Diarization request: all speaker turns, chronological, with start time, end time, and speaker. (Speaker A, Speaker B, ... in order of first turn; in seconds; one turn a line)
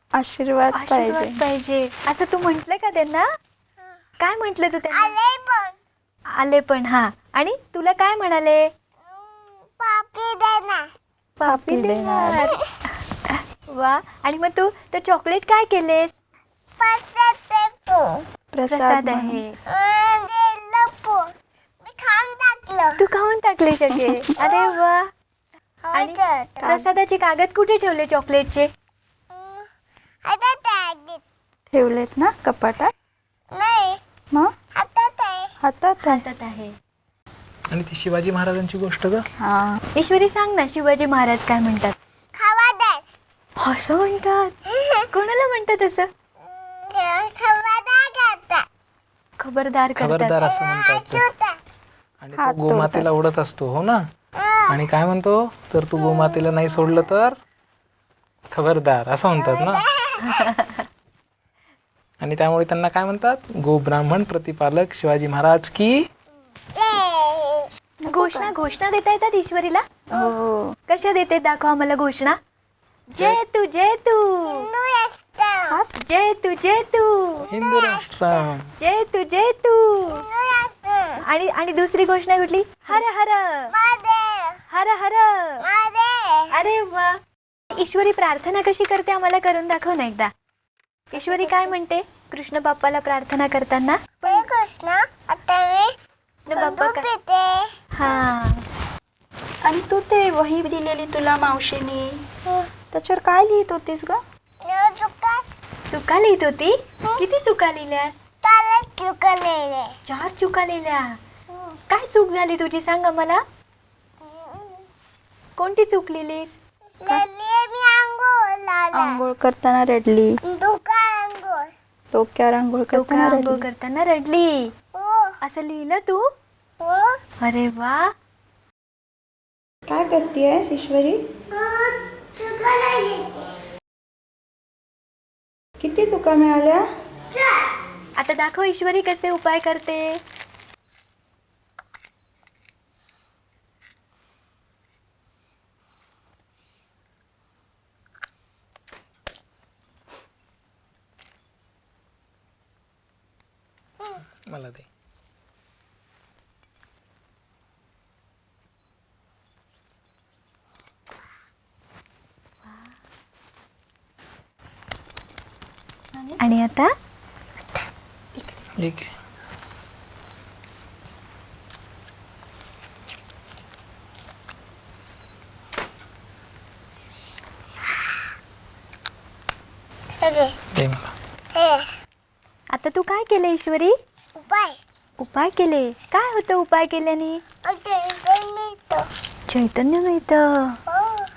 Speaker A: 0.1-1.4
Speaker B: 0.7-3.2
Speaker B: 4.2-5.1
Speaker C: 4.9-5.8
Speaker B: 6.4-8.6
Speaker C: 9.0-10.8
Speaker B: 11.4-12.6
Speaker A: 11.4-12.4
Speaker B: 13.2-16.1
Speaker C: 16.8-18.2
Speaker A: 18.5-19.4
Speaker B: 18.7-19.5
Speaker C: 19.7-21.2
Speaker C: 21.8-23.0
Speaker B: 23.0-25.0
Speaker C: 24.4-24.8
Speaker C: 25.8-26.7
Speaker B: 25.9-28.7
Speaker A: 26.6-26.9
Speaker C: 29.3-29.7
Speaker C: 30.3-31.2
Speaker A: 31.7-32.9
Speaker C: 33.5-34.0
Speaker C: 34.8-35.5
Speaker A: 35.6-36.2
Speaker B: 36.0-36.7
Speaker D: 37.7-39.2
Speaker A: 39.4-39.8
Speaker B: 40.0-41.9
Speaker C: 42.4-43.0
Speaker B: 43.6-44.5
Speaker C: 44.7-45.0
Speaker B: 45.1-46.1
Speaker C: 46.4-48.6
Speaker B: 49.4-50.4
Speaker D: 50.0-51.2
Speaker C: 50.4-51.5
Speaker D: 52.2-54.0
Speaker A: 52.3-53.1
Speaker C: 54.4-54.8
Speaker D: 54.7-57.4
Speaker C: 56.0-56.5
Speaker D: 58.5-59.8
Speaker C: 59.3-60.5
Speaker B: 60.2-60.8
Speaker D: 62.2-66.0
Speaker C: 66.8-67.7
Speaker A: 68.0-68.7
Speaker B: 68.1-69.8
Speaker A: 70.1-70.7
Speaker B: 70.9-72.4
Speaker B: 73.1-74.6
Speaker C: 74.5-75.8
Speaker B: 76.0-77.5
Speaker C: 77.4-78.4
Speaker D: 77.5-78.7
Speaker B: 78.8-80.2
Speaker C: 80.1-81.2
Speaker B: 81.2-83.7
Speaker C: 83.7-84.6
Speaker B: 84.7-85.6
Speaker C: 85.6-86.5
Speaker B: 86.5-87.1
Speaker B: 87.8-90.3
Speaker C: 91.1-91.7
Speaker B: 91.1-94.5
Speaker C: 94.2-95.9
Speaker B: 96.5-97.0
Speaker C: 96.5-97.7
Speaker B: 98.0-98.6
Speaker A: 99.6-102.2
Speaker A: 102.9-104.2
Speaker C: 104.6-105.4
Speaker B: 105.9-108.1
Speaker C: 108.4-109.9
Speaker B: 110.0-111.0
Speaker B: 111.9-113.4
Speaker C: 114.2-114.8
Speaker B: 115.6-116.5
Speaker C: 117.0-119.2
Speaker A: 118.9-120.4
Speaker C: 120.5-121.7
Speaker A: 122.1-123.6
Speaker B: 122.9-124.7
Speaker C: 124.9-125.3
Speaker B: 125.4-126.2
Speaker C: 126.8-127.1
Speaker B: 127.4-128.1
Speaker A: 129.9-131.2
Speaker C: 131.5-133.5
Speaker A: 135.8-136.8
Speaker C: 137.3-137.7
Speaker B: 138.2-140.2
Speaker D: 154.3-154.9
Speaker A: 166.1-166.4
Speaker B: 166.4-166.9
Speaker D: 168.8-169.1
Speaker C: 180.2-180.5
Speaker D: 180.7-181.1
Speaker C: 181.5-181.8
Speaker B: 182.7-183.9
Speaker C: 184.4-184.8
Speaker B: 185.2-187.4
Speaker C: 187.6-189.0
Speaker B: 189.5-190.8
Speaker C: 190.9-191.3